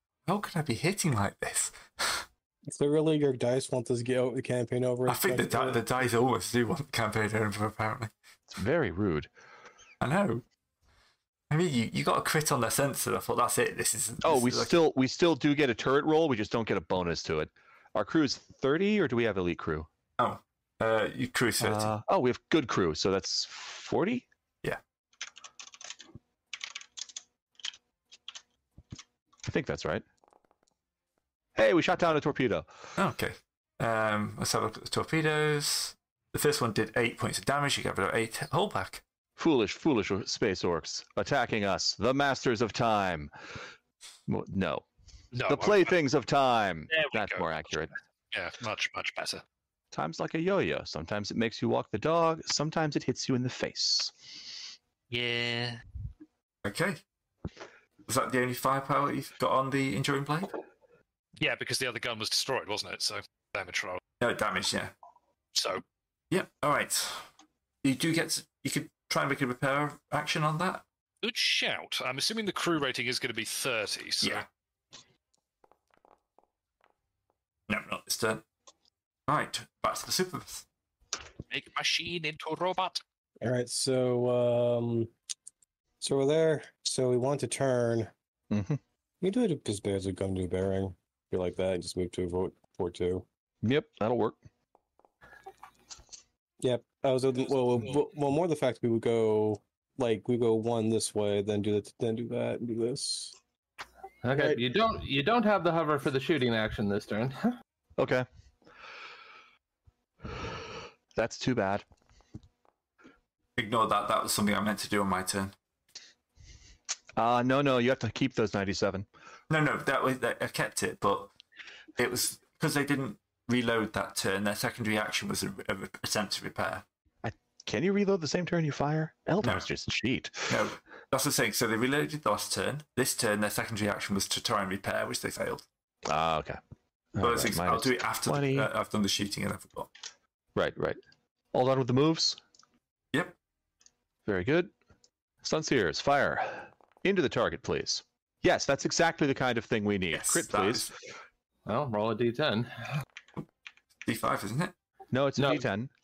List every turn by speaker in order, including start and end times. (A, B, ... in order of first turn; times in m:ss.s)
0:00.3-0:02.3 A
0:02.7-0:05.8 B
0:05.1-0:08.1 A
0:08.5-0:09.3 C
0:10.0-0:10.4 A
0:11.5-0:14.8 A
0:14.2-0:19.9 C
0:20.2-0:21.9 A
0:21.6-0:24.3 C
0:29.4-0:30.0 C
0:31.6-0:32.7 C
0:33.0-0:39.0 A
0:39.4-0:43.5 C
0:44.3-0:44.8 C
0:45.3-0:45.9 D
0:45.5-0:47.9 C
0:46.9-0:47.6 D
0:48.3-0:49.4 D
0:49.9-0:54.4 C
0:55.1-0:55.8 D
0:56.6-0:57.0 A
0:58.1-1:00.5 A
1:01.4-1:04.0 D
1:04.2-1:04.9 A
1:05.6-1:05.8 D
1:06.3-1:07.3 A
1:07.8-1:10.8 A
1:11.2-1:14.4 D
1:17.7-1:18.4 A
1:19.3-1:20.6 A
1:21.5-1:23.0 D
1:23.4-1:25.1 B
1:26.0-1:28.1 B
1:28.5-1:28.8 C
1:29.2-1:33.2 B
1:33.6-1:34.4 C
1:36.6-1:43.3 B
1:44.2-1:47.6 E
1:44.3-1:44.6 B
1:48.0-1:48.3 C
1:51.2-1:51.8 C
1:53.6-1:55.5 A
1:57.2-1:59.1 C
1:59.5-2:01.3 A
2:02.0-2:06.8 A
2:07.2-2:10.6 C
2:10.5-2:15.6 A
2:16.0-2:16.6 C
2:17.2-2:18.7 C
2:17.2-2:19.9 A
2:20.6-2:21.0 C
2:21.5-2:22.4 C
2:24.2-2:24.7 C
2:25.4-2:30.9 C
2:30.1-2:30.9 A
2:31.7-2:33.0 E
2:34.0-2:34.7 A
2:35.1-2:35.9 C
2:35.4-2:35.6 E